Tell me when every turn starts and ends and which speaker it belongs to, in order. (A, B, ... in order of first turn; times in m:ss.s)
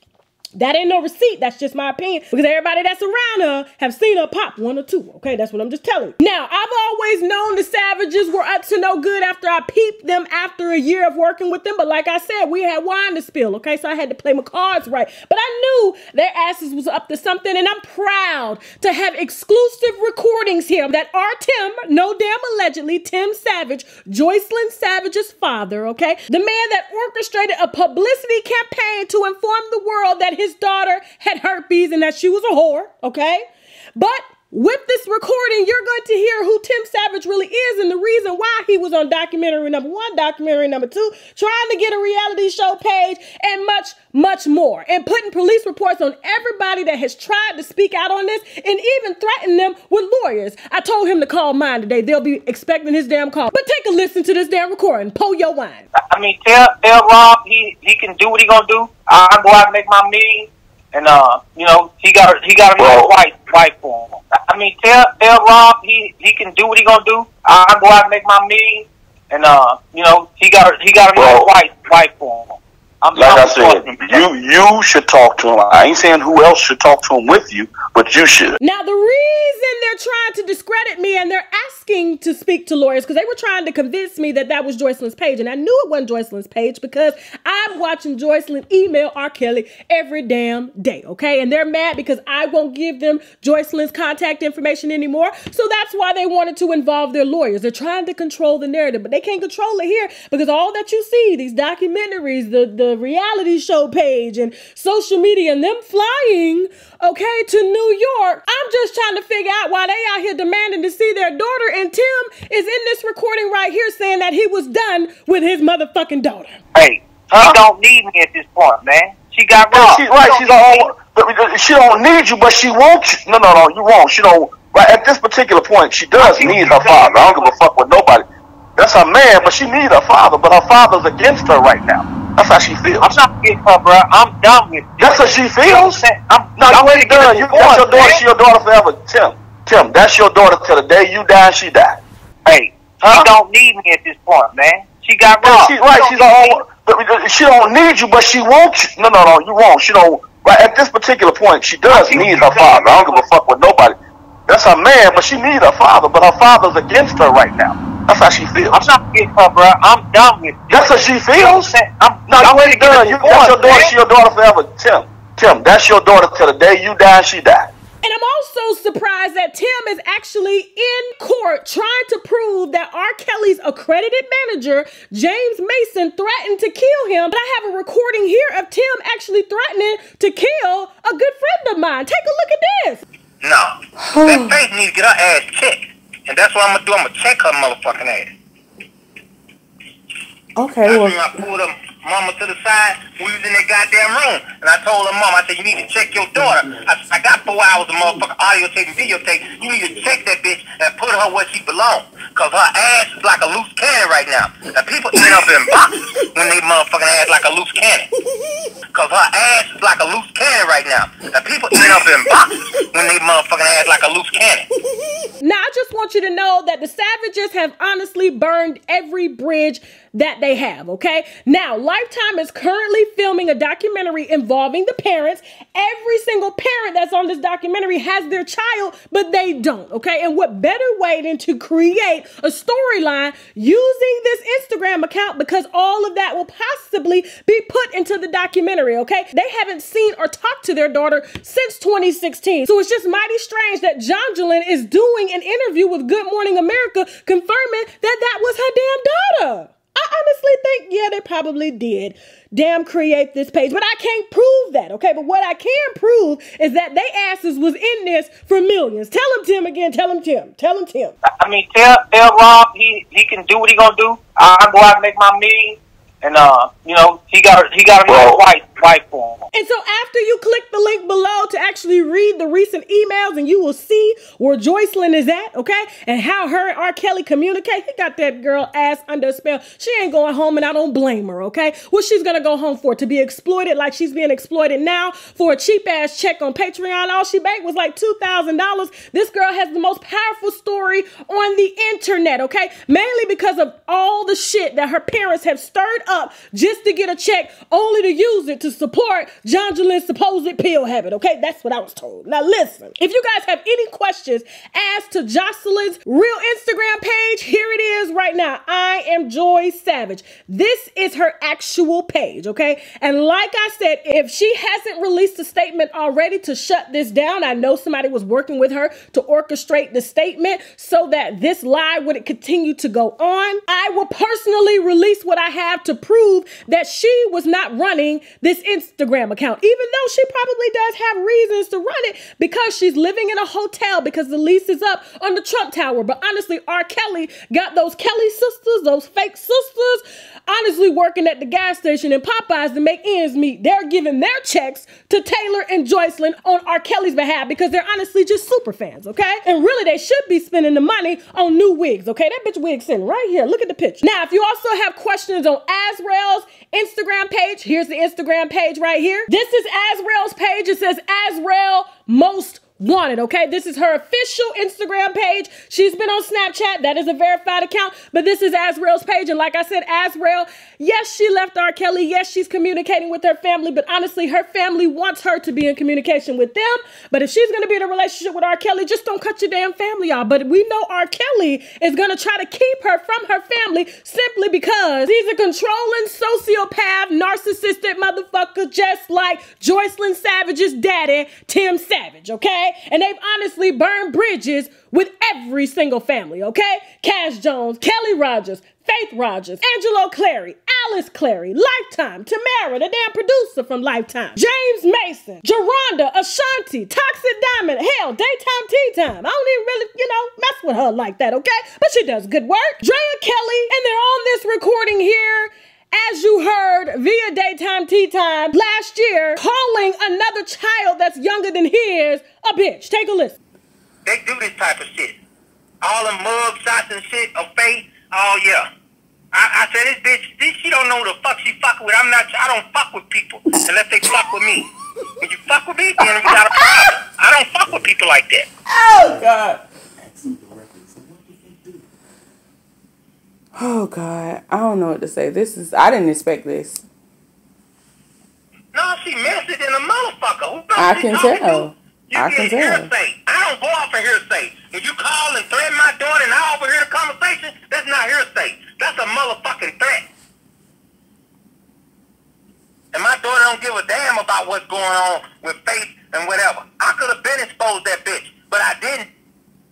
0:00.6-0:55.9 A
0:56.1-1:14.3 B
1:02.8-1:03.1 C
1:11.2-1:11.5 C
1:13.2-1:18.6 C
1:18.6-1:56.6 A
1:56.8-2:00.9 B
1:59.7-2:08.3 C
2:08.8-2:13.1 C
2:13.0-2:18.2 B
2:15.0-2:16.0 C
2:16.6-2:22.0 C
2:22.5-2:26.6 B
2:25.4-2:34.0 C
2:32.0-2:33.2 B
2:34.5-2:38.8 C
2:38.7-2:44.0 B
2:40.7-2:41.8 C
2:42.3-2:47.7 C
2:48.0-3:03.0 A
3:03.4-3:08.3 D
3:04.0-3:04.6 E
3:10.6-3:11.4 E
3:10.8-3:28.1 D
3:28.9-3:34.7 D
3:35.4-4:21.2 A
4:21.4-4:29.5 B
4:28.1-4:28.4 C
4:29.5-7:03.4 A
7:04.1-7:05.2 D
7:05.8-7:08.7 D
7:09.3-7:14.7 D
7:15.2-7:18.5 D
7:18.8-7:19.6 E
7:20.2-7:20.4 E
7:23.6-7:26.8 E
7:28.7-7:40.1 D
7:30.8-7:32.9 E
7:42.9-7:49.1 D